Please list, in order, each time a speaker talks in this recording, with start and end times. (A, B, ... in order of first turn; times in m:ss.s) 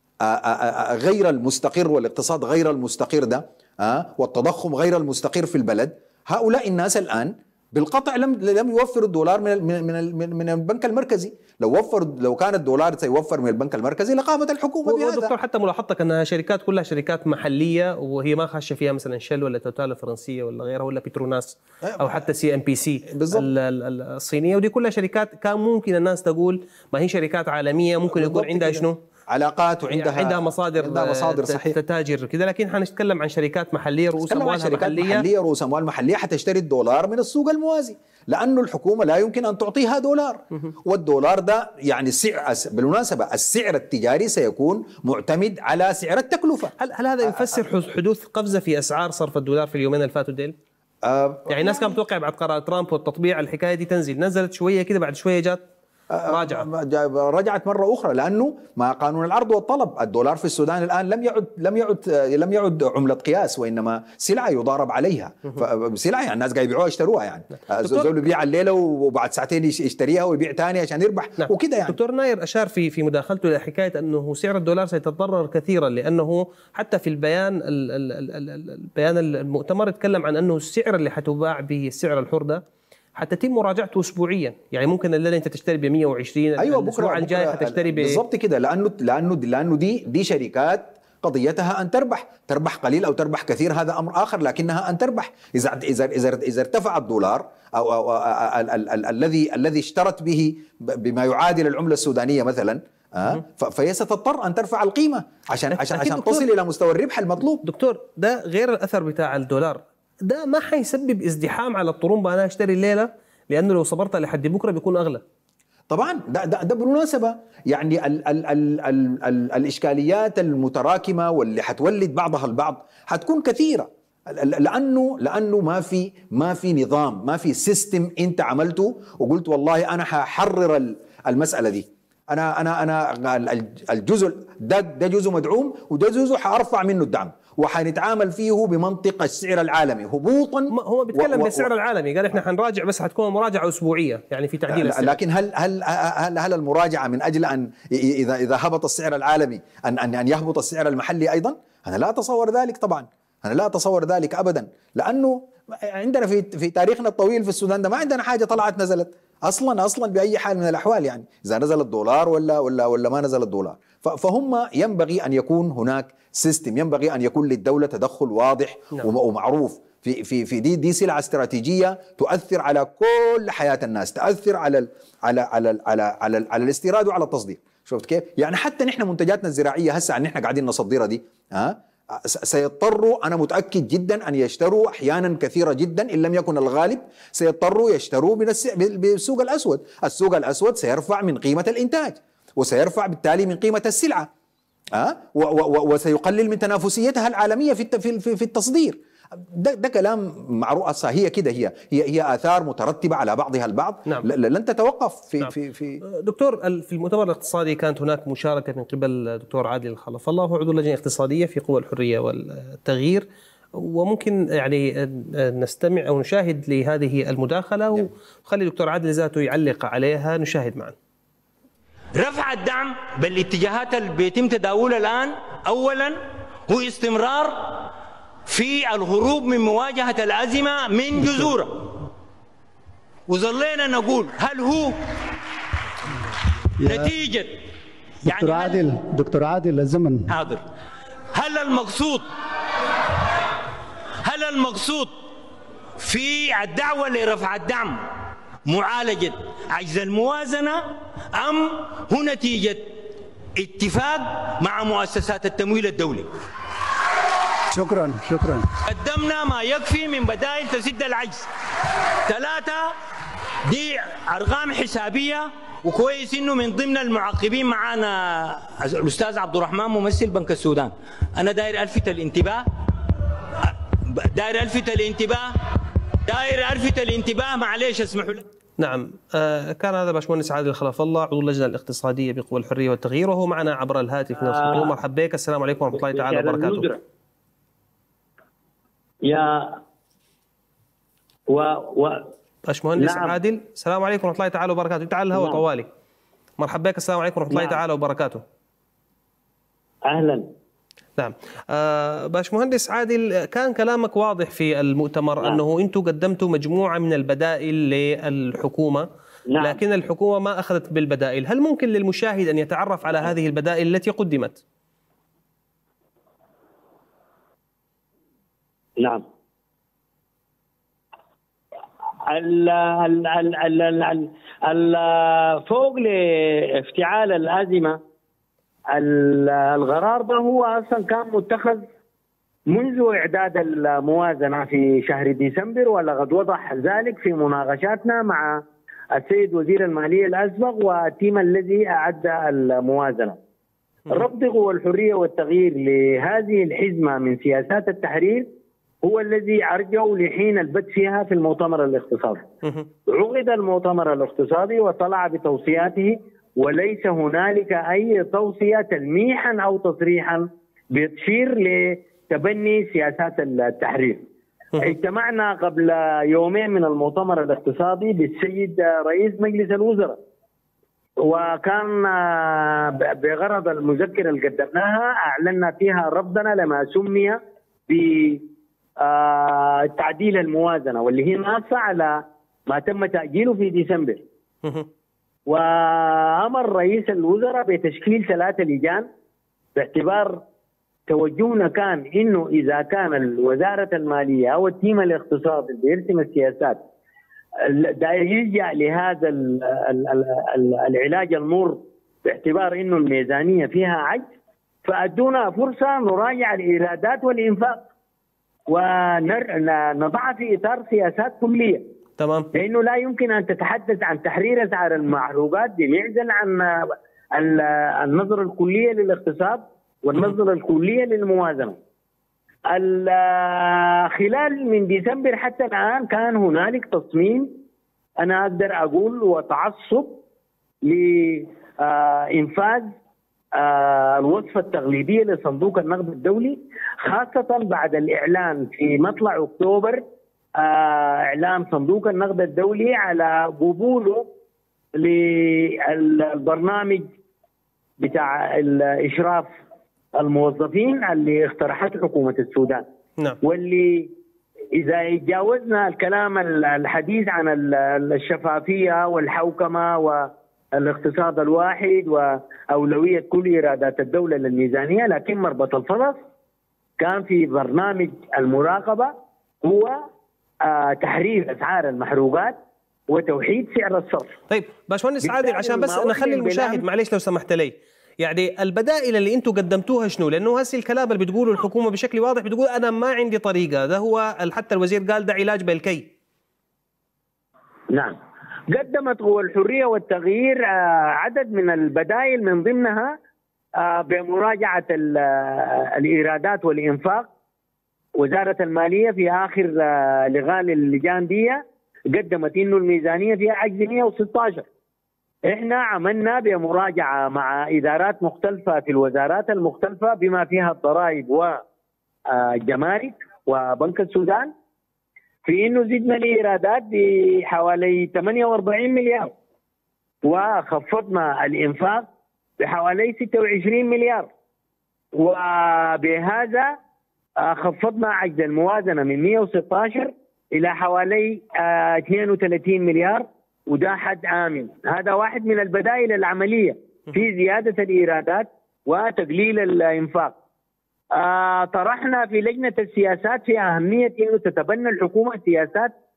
0:00.2-0:15.3 A
0:14.8-0:29.0 B
0:21.8-0:22.3 A
0:23.0-0:23.5 A
0:28.1-0:31.8 A
0:29.9-0:35.2 B
0:34.2-0:47.6 A
0:46.8-0:50.5 B
0:51.0-0:52.0 A
0:51.5-0:55.6 B
0:56.1-1:12.0 A
0:56.3-0:56.7 B
1:07.6-1:08.2 B
1:11.4-1:22.6 B
1:23.2-1:28.2 B
1:26.6-1:47.6 A
1:45.7-1:46.4 B
1:47.6-1:55.2 B
1:55.9-2:21.7 A
2:20.7-2:25.2 B
2:24.7-3:14.3 A
3:14.9-3:26.0 A
3:26.0-3:33.2 B
3:33.8-3:41.0 B
3:42.2-3:47.8 C
3:48.5-3:51.9 C
3:53.3-3:55.0 C
3:56.8-3:57.1 D
3:56.8-3:57.6 C
3:58.2-4:00.3 D
3:58.2-3:58.9 C
4:00.3-4:00.6 C
4:01.3-4:02.3 C
4:04.2-4:05.2 C
4:06.0-4:08.0 C
4:08.7-4:13.0 C
4:13.6-4:16.3 C
4:17.7-4:18.7 D
4:18.8-4:21.4 C
4:22.2-4:22.9 C
4:23.6-4:32.7 C
4:34.1-4:35.5 C
4:36.3-4:38.4 C
4:38.8-4:46.9 B
4:44.4-4:45.0 E
4:45.9-4:47.0 E
4:49.2-4:49.8 E
4:51.5-4:52.3 E
4:52.7-4:55.9 B
4:53.0-4:53.4 E
4:55.3-4:55.6 E
4:56.6-4:58.4 B
4:57.5-4:57.8 E
5:00.1-5:00.5 E
5:01.2-5:09.1 B
5:09.5-5:09.8 E
5:09.6-5:14.6 B
5:19.0-5:19.2 E
5:22.3-5:28.0 E
5:28.9-5:31.8 E
5:32.7-5:38.6 E
5:39.1-5:43.4 E
5:44.1-5:48.5 E
5:49.0-5:52.4 E
5:53.0-6:04.2 E
6:04.8-6:10.2 E
6:11.2-6:18.4 E
6:19.0-6:24.2 E
6:25.5-6:29.1 E
6:29.8-6:30.4 E
6:31.1-6:36.8 E
6:37.6-6:44.3 E
6:44.8-6:47.8 E
6:48.7-6:51.8 E
6:52.2-6:52.5 B
6:52.5-7:01.8 E
7:02.7-7:07.5 E
7:08.2-7:10.2 E
7:10.8-7:12.9 E
7:13.5-7:20.0 E
7:20.6-7:24.2 E
7:24.9-7:27.1 E
7:28.0-7:29.5 E
7:30.2-7:32.8 E
7:33.4-7:34.1 E
7:34.8-7:46.2 E
7:47.0-7:50.0 E
7:50.6-7:54.4 E
7:54.5-8:06.1 B
7:55.2-7:56.8 E
8:07.9-8:08.2 E
8:08.7-8:13.2 E
8:13.8-8:17.3 E
8:18.2-8:24.6 E
8:25.5-8:31.6 E
8:32.3-8:34.5 E
8:35.4-8:39.3 E
8:40.2-8:42.0 E
8:42.6-8:44.3 E
8:45.1-8:46.7 E
8:47.4-9:00.3 E
9:01.2-9:05.9 E